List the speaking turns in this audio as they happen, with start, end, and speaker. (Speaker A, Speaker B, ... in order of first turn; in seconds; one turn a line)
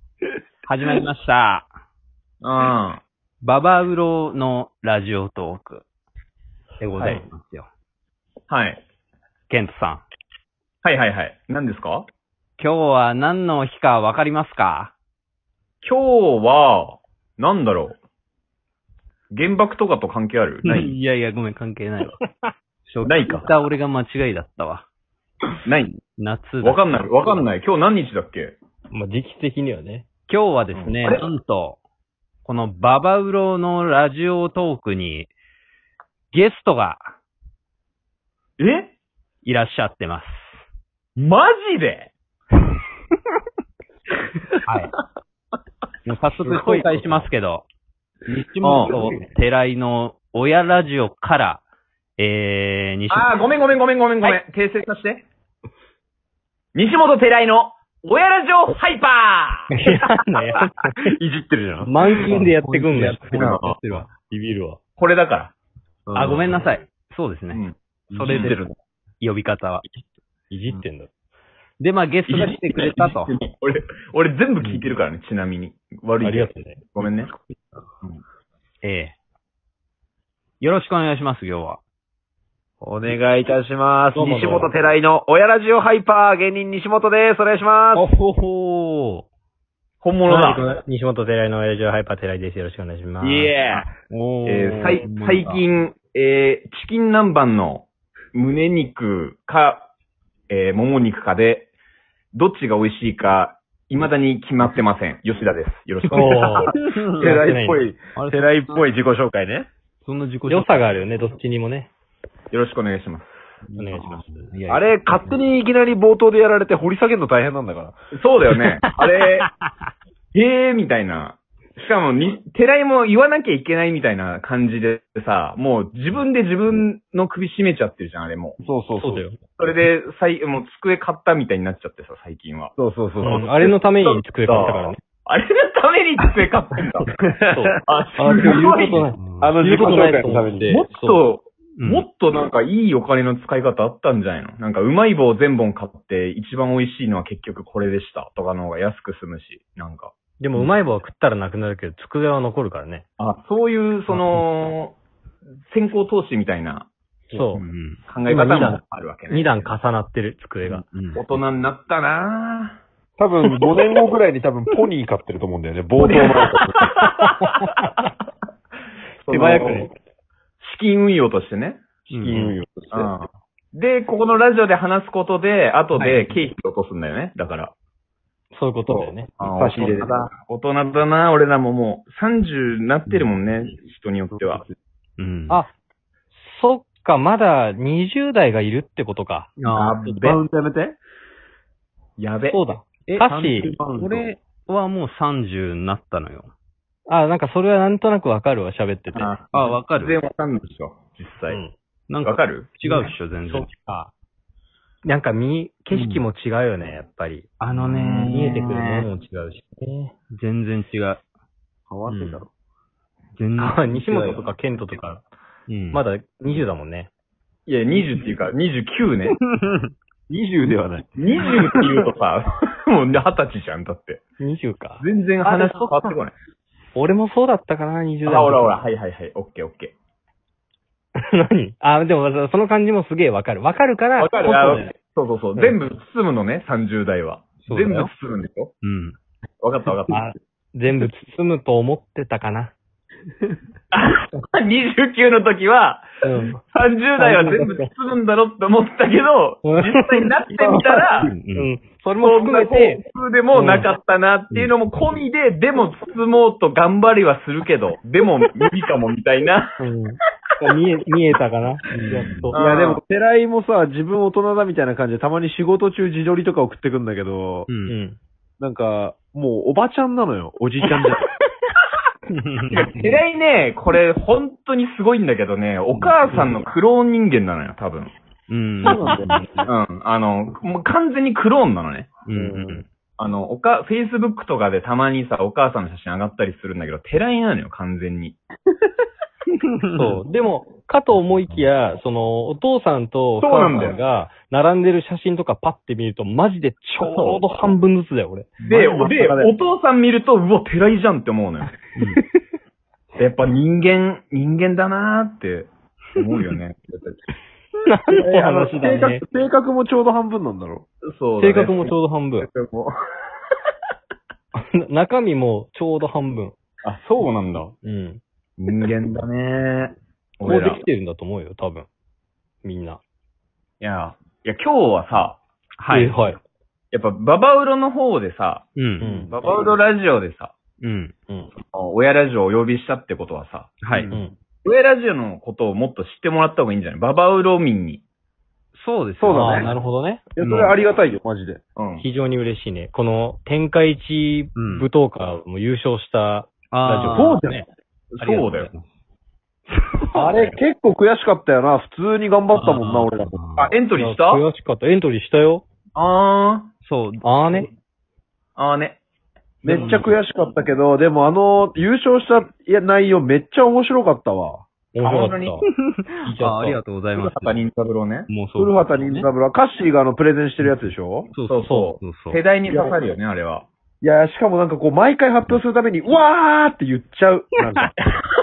Speaker A: 0.7-1.6
Speaker B: 2.4-3.0
Speaker A: 3.4-5.8
Speaker A: 6.8-7.7
Speaker B: 7.0-7.2
Speaker B: 8.5-8.8
Speaker A: 9.5-10.0
Speaker B: 10.8-12.1
Speaker A: 12.6-14.9
Speaker B: 15.8-18.0
Speaker B: 19.3-20.9
Speaker A: 20.6-22.2
Speaker A: 22.9-24.9
Speaker B: 23.0-23.5
Speaker B: 25.6-26.0
Speaker A: 26.2-27.4
Speaker B: 26.6-28.6
Speaker C: 28.9-30.1
Speaker A: 30.3-31.8
Speaker B: 30.7-31.2
Speaker A: 32.4-35.3
Speaker A: 36.3-37.1
Speaker B: 38.6-38.9
Speaker A: 39.4-40.6
Speaker B: 41.2-42.1
Speaker A: 44.7-44.9
Speaker A: 46.0-47.6
Speaker C: 46.5-47.3
Speaker A: 48.3-51.6
Speaker B: 48.6-49.0
Speaker A: 52.2-53.4
Speaker B: 53.1-55.2
Speaker B: 56.7-59.7
Speaker C: 59.7-61.1
Speaker D: 61.1-62.1
Speaker C: 61.8-64.8
Speaker A: 62.2-64.1
Speaker D: 63.3-63.8
Speaker B: 65.0-65.5
Speaker D: 66.1-66.5
Speaker A: 66.2-67.6
Speaker B: 66.2-66.6
Speaker B: 67.5-68.6
Speaker D: 68.1-68.8
Speaker A: 69.2-69.8
Speaker C: 70.5-71.1
Speaker A: 71.8-73.3
Speaker B: 72.3-77.3
Speaker C: 76.2-76.9
Speaker A: 78.8-79.2
Speaker A: 80.6-81.8
Speaker D: 82.8-88.1
Speaker C: 84.1-84.7
Speaker A: 88.0-89.2
Speaker B: 90.0-90.7
Speaker C: 90.3-93.6
Speaker D: 93.2-93.9
Speaker A: 94.1-95.6
Speaker B: 94.5-99.9
Speaker B: 100.5-101.7
Speaker B: 102.3-106.7
Speaker C: 106.0-107.8
Speaker A: 106.7-107.5
Speaker D: 107.1-109.7
Speaker A: 108.2-108.8
Speaker A: 110.0-111.3
Speaker C: 110.5-111.9
Speaker B: 112.5-113.4
Speaker A: 113.7-115.4
Speaker C: 113.8-114.2
Speaker D: 114.7-118.0
Speaker B: 118.1-119.5
Speaker A: 119.2-119.5
Speaker B: 120.3-128.6
Speaker D: 128.6-129.2
Speaker C: 129.0-129.4
Speaker B: 129.6-137.1
Speaker D: 132.8-133.4
Speaker C: 133.2-135.0
Speaker D: 137.2-137.7
Speaker C: 137.5-141.2
Speaker B: 137.9-139.0
Speaker D: 138.5-140.8
Speaker A: 139.2-139.5
Speaker B: 139.7-140.1
Speaker B: 140.7-150.7
Speaker A: 141.8-142.1
Speaker C: 150.4-153.0
Speaker B: 153.2-155.0
Speaker C: 154.1-154.4
Speaker B: 155.7-156.9
Speaker C: 157.3-157.6
Speaker A: 157.5-158.0
Speaker B: 158.1-159.7
Speaker C: 158.3-160.8
Speaker A: 160.6-161.2
Speaker B: 161.1-162.8
Speaker D: 163.2-166.8
Speaker B: 165.9-167.5
Speaker B: 169.2-169.9
Speaker C: 169.3-169.9
Speaker B: 170.6-171.8
Speaker A: 172.1-172.6
Speaker D: 172.1-173.1
Speaker B: 172.9-177.7
Speaker A: 175.9-176.3
Speaker C: 178.5-179.3
Speaker D: 178.9-180.2
Speaker A: 179.4-179.9
Speaker B: 179.4-184.6
Speaker D: 184.3-184.7
Speaker A: 185.2-185.6
Speaker C: 186.3-189.5
Speaker A: 189.6-190.3
Speaker B: 189.7-190.4
Speaker D: 190.2-191.0
Speaker B: 192.2-192.6
Speaker C: 192.5-193.8
Speaker D: 193.1-194.3
Speaker A: 194.0-196.5
Speaker C: 197.1-199.3
Speaker B: 199.1-201.6
Speaker A: 199.5-200.2
Speaker C: 201.5-201.7
Speaker A: 202.1-203.7
Speaker B: 202.2-202.7
Speaker C: 202.8-204.1
Speaker C: 205.0-207.5
Speaker A: 205.9-206.2
Speaker A: 207.6-209.1
Speaker B: 207.7-208.6
Speaker C: 208.2-210.1
Speaker A: 210.3-211.2
Speaker D: 211.9-212.5
Speaker A: 212.1-212.4
Speaker A: 213.4-214.4
Speaker C: 213.6-215.2
Speaker A: 215.7-216.0
Speaker C: 215.9-217.1
Speaker B: 217.7-219.4
Speaker D: 220.3-222.0
Speaker B: 221.2-224.2
Speaker C: 224.4-226.0
Speaker B: 225.0-226.3
Speaker C: 226.9-228.8
Speaker B: 228.2-229.9
Speaker C: 231.3-234.9
Speaker B: 234.2-238.7
Speaker A: 237.6-238.1
Speaker A: 238.8-239.2
Speaker B: 239.6-240.2
Speaker C: 240.1-242.7
Speaker B: 243.9-246.1
Speaker C: 246.2-246.6
Speaker B: 246.6-251.3
Speaker C: 247.2-247.9
Speaker C: 249.6-250.7
Speaker A: 251.2-251.7
Speaker C: 251.5-253.0
Speaker B: 252.2-259.8
Speaker C: 253.5-253.9
Speaker C: 259.8-262.6
Speaker A: 261.9-262.5
Speaker D: 262.5-267.7
Speaker B: 262.5-263.0
Speaker A: 267.7-267.9
Speaker C: 267.9-268.2
Speaker D: 268.6-271.2
Speaker A: 272.3-273.1
Speaker B: 272.7-278.1
Speaker A: 275.9-276.5
Speaker A: 278.5-279.6
Speaker D: 278.8-279.7
Speaker B: 279.6-282.1
Speaker A: 282.2-282.8
Speaker D: 282.3-282.8
Speaker B: 283.2-288.4
Speaker C: 289.9-298.5
Speaker B: 293.4-294.0
Speaker B: 297.0-297.4
Speaker D: 298.6-299.5
Speaker B: 298.7-301.7
Speaker A: 301.9-302.2
Speaker B: 303.2-307.2
Speaker C: 307.9-309.2
Speaker D: 308.1-310.8
Speaker B: 311.0-312.9
Speaker C: 311.4-312.5
Speaker C: 314.6-316.6
Speaker B: 316.8-317.7
Speaker C: 317.8-318.2
Speaker B: 318.6-320.8
Speaker C: 320.4-321.9
Speaker C: 322.6-323.0
Speaker B: 323.8-325.4
Speaker A: 325.8-326.3
Speaker C: 325.9-326.4
Speaker B: 326.9-328.7
Speaker A: 328.8-329.1
Speaker C: 329.0-329.3
Speaker D: 329.0-329.5
Speaker B: 329.3-330.5
Speaker A: 330.8-331.1
Speaker B: 331.6-333.8
Speaker A: 333.8-334.1
Speaker D: 333.9-334.3
Speaker B: 334.6-338.0
Speaker A: 338.8-339.8
Speaker D: 339.2-339.8
Speaker C: 339.3-340.2
Speaker D: 340.3-341.6
Speaker A: 340.4-340.8
Speaker B: 341.8-342.1
Speaker C: 342.0-347.7
Speaker A: 344.6-344.9
Speaker A: 346.7-347.4
Speaker D: 347.1-347.6
Speaker B: 348.1-348.7
Speaker A: 348.2-348.8
Speaker A: 349.7-350.5
Speaker D: 350.1-353.4
Speaker A: 352.5-353.7
Speaker B: 353.6-354.4
Speaker C: 353.9-355.6
Speaker B: 355.9-356.7
Speaker A: 356.8-357.7
Speaker C: 357.2-357.7
Speaker B: 358.6-359.0
Speaker D: 359.6-364.6
Speaker A: 359.6-360.1
Speaker C: 364.9-365.6
Speaker B: 365.0-365.6
Speaker C: 366.2-366.8
Speaker A: 366.2-367.6
Speaker B: 367.1-368.3
Speaker A: 368.3-369.3
Speaker D: 368.6-371.3
Speaker A: 370.6-372.4
Speaker B: 371.5-373.7
Speaker C: 371.6-371.9
Speaker D: 372.7-372.9
Speaker D: 374.0-377.9